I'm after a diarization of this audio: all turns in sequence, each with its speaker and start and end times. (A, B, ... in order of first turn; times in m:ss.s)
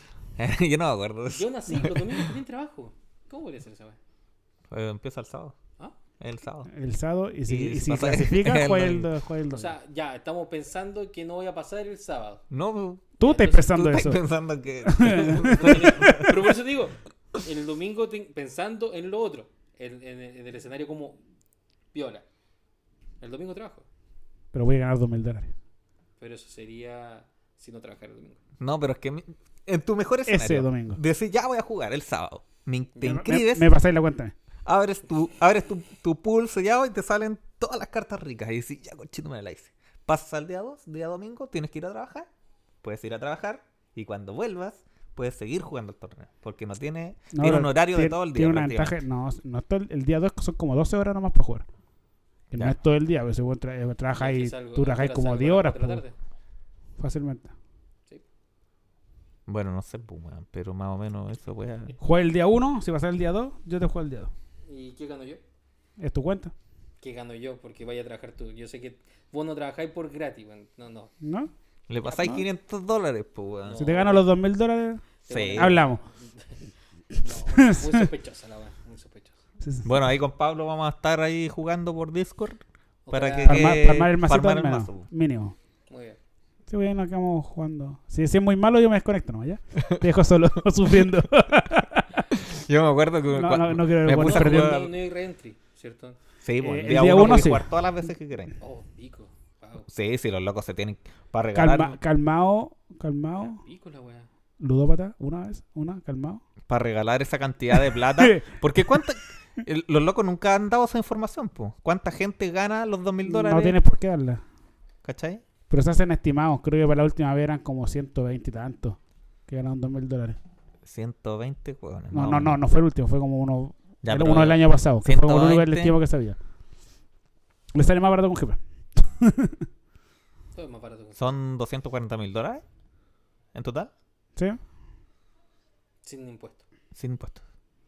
0:00.4-0:02.3 A
0:01.3-0:04.0 B
0:04.7-0:05.6 A
0:06.2-0:06.7 A
0:06.7-0:09.8 C
0:07.5-0:09.1 A
0:09.5-0:12.4 B
0:12.5-0:13.2 A
0:13.2-0:13.8 B
0:13.2-0:14.2 C
0:13.7-0:16.4 A
0:14.9-0:16.4 C
0:15.2-0:21.2 B
0:21.9-0:22.2 B
0:23.2-0:23.9 B
0:24.5-0:25.5 C
0:26.2-0:28.4 B
0:28.6-0:33.7 A
0:30.3-0:31.0 C
0:33.0-0:34.3 C
0:34.7-0:42.3 A
0:42.8-0:49.0 A
0:47.3-0:51.7 C
0:52.5-0:56.0 C
0:54.2-0:56.2 B
0:57.0-0:57.5 C
0:59.5-1:02.0 A
1:02.0-1:04.3 C
1:04.7-1:05.4 B
1:06.0-1:06.5 C
1:07.0-1:11.1 B
1:11.2-1:11.5 C
1:11.9-1:13.9 A
1:12.1-1:12.4 B
1:13.7-1:14.2 B
1:13.8-1:16.0 C
1:15.2-1:16.5 B
1:15.3-1:15.8 A
1:17.1-1:19.4 B
1:17.4-1:18.1 C
1:19.6-1:19.9 C
1:19.8-1:25.1 A
1:23.1-1:23.8 B
1:23.4-1:25.6 C
1:25.9-1:26.2 B
1:26.7-1:32.2 C
1:32.3-1:34.9 A
1:33.3-1:34.8 C
1:34.1-1:36.2 B
1:36.4-1:38.5 A
1:36.6-1:37.7 C
1:38.6-1:39.9 B
1:39.9-1:42.0 A
1:41.5-1:43.6 C
1:43.4-1:44.3 B
1:44.6-1:46.4 C
1:46.7-1:53.8 A
1:47.7-1:48.5 C
1:53.2-1:54.4 C
1:55.0-1:55.4 A
1:55.7-2:00.4 C
2:00.8-2:02.6 A
2:02.1-2:06.4 C
2:04.0-2:06.0 A
2:07.7-2:09.7 C
2:10.5-2:11.2 B
2:11.2-2:12.6 A
2:13.5-2:13.9 A
2:16.0-2:16.6 B
2:16.9-2:17.4 A